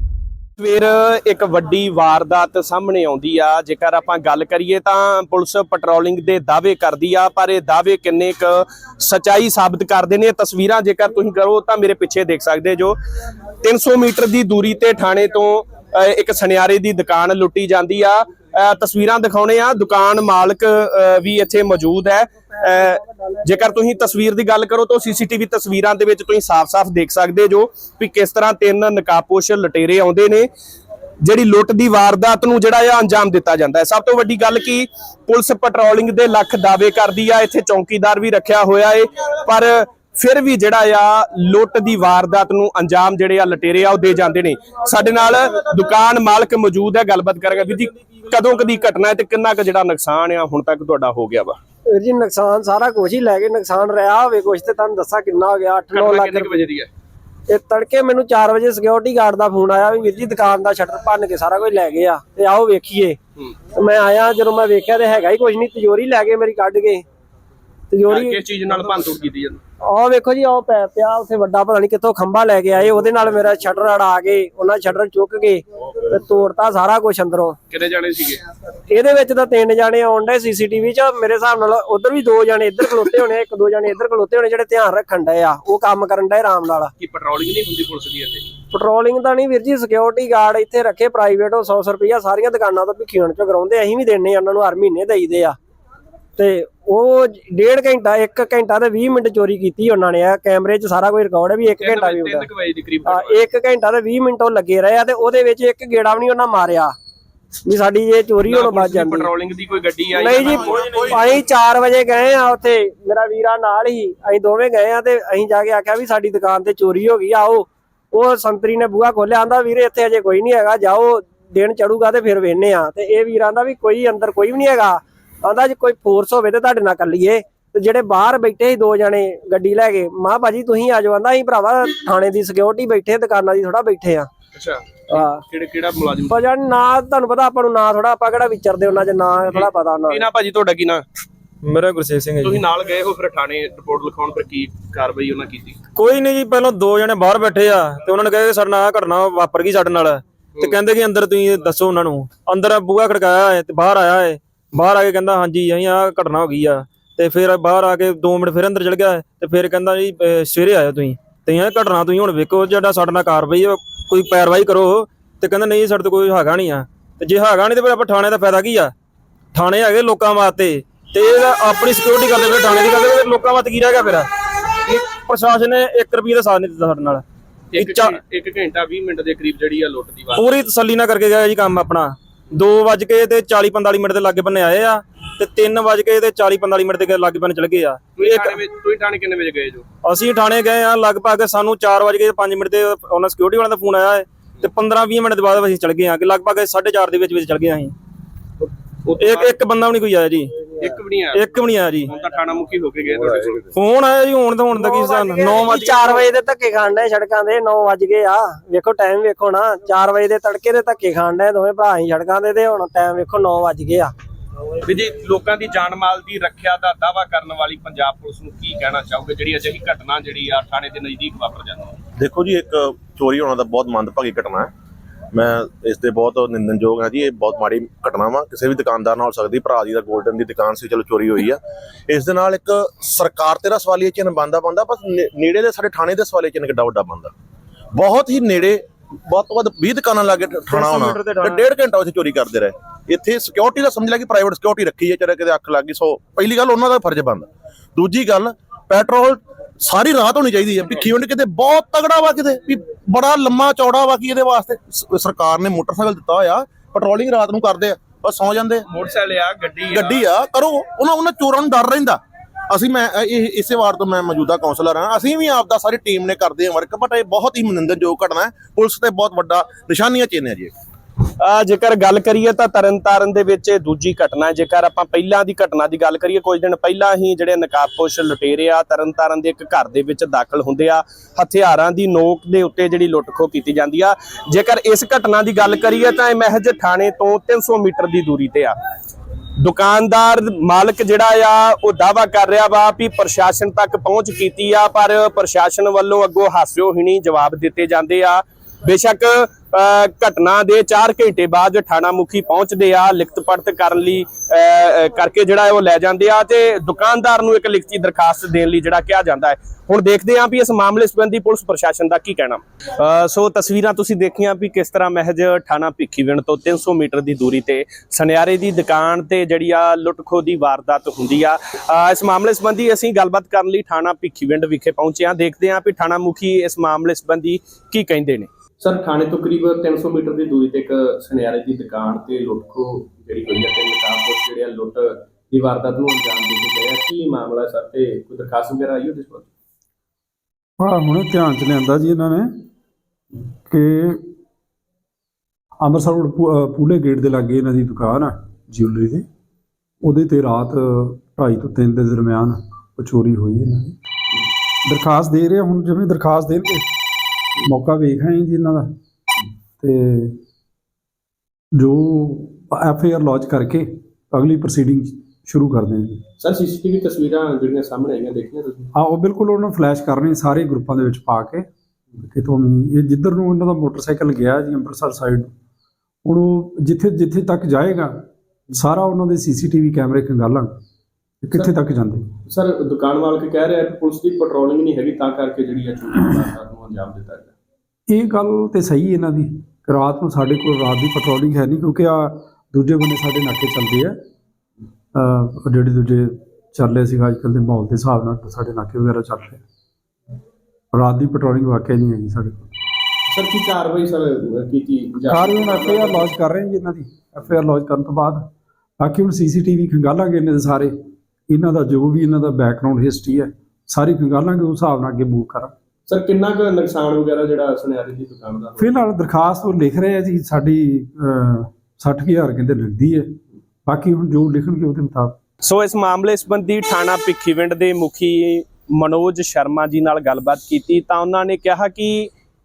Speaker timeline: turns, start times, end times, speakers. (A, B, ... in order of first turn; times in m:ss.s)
0:00.6-0:13.0 A
0:13.6-0:30.5 A
0:31.2-0:51.6 A
0:51.9-0:56.5 B
0:55.9-0:56.9 A
0:57.5-1:03.2 B
1:03.7-1:07.0 B
1:07.9-1:08.4 B
1:08.1-1:09.6 A
1:09.8-1:17.6 B
1:17.7-1:18.4 A
1:18.9-1:26.9 B
1:27.0-1:28.5 A
1:28.7-1:35.6 B
1:36.4-1:42.5 B
1:41.8-1:43.4 A
1:43.1-1:46.9 B
1:47.6-1:49.3 B
1:48.4-1:51.2 A
1:50.1-2:14.3 B
1:50.5-1:51.3 C
1:50.6-1:51.1 D
2:14.5-2:16.4 A
2:15.1-2:15.4 B
2:16.3-2:20.2 B
2:19.5-2:21.0 A
2:21.6-2:22.6 D
2:22.4-2:25.8 A
2:25.9-2:48.9 D
2:49.5-2:54.3 D
2:54.8-2:57.2 D
2:57.7-3:00.5 A
2:57.8-2:58.2 D
3:00.4-3:08.6 D
3:08.2-3:09.9 A
3:10.0-3:17.9 D
3:19.0-3:19.6 A
3:19.2-3:20.7 D
3:20.7-3:21.4 A
3:21.3-3:22.1 D
3:22.1-3:23.6 A
3:23.7-3:26.0 D
3:24.7-3:34.1 B
3:34.8-3:42.0 A
3:42.2-3:44.7 C
3:45.3-3:57.3 C
3:57.9-4:18.8 C
4:00.7-4:01.6 D
4:18.9-4:20.2 A
4:19.9-4:22.2 C
4:22.7-4:30.7 C
4:31.4-4:48.8 A
4:49.6-5:39.5 A
5:40.8-5:42.6 E
5:43.7-5:44.3 E
5:45.8-5:49.2 E
5:50.0-5:54.0 E
5:54.8-5:56.9 E
5:57.6-5:58.9 E
5:59.8-6:00.4 E
6:01.7-6:06.2 E
6:06.4-6:08.9 A
6:08.9-6:11.7 E
6:12.2-6:15.5 E
6:16.2-6:20.8 E
6:21.4-6:22.3 E
6:22.4-6:27.5 A
6:28.1-6:34.2 E
6:35.1-6:39.6 E
6:40.9-6:42.7 E
6:43.3-6:46.3 A
6:45.3-6:48.5 E
6:49.0-6:50.9 E
6:51.5-6:55.7 E
6:56.1-6:58.9 A
6:58.8-7:05.4 E
7:05.6-7:12.3 A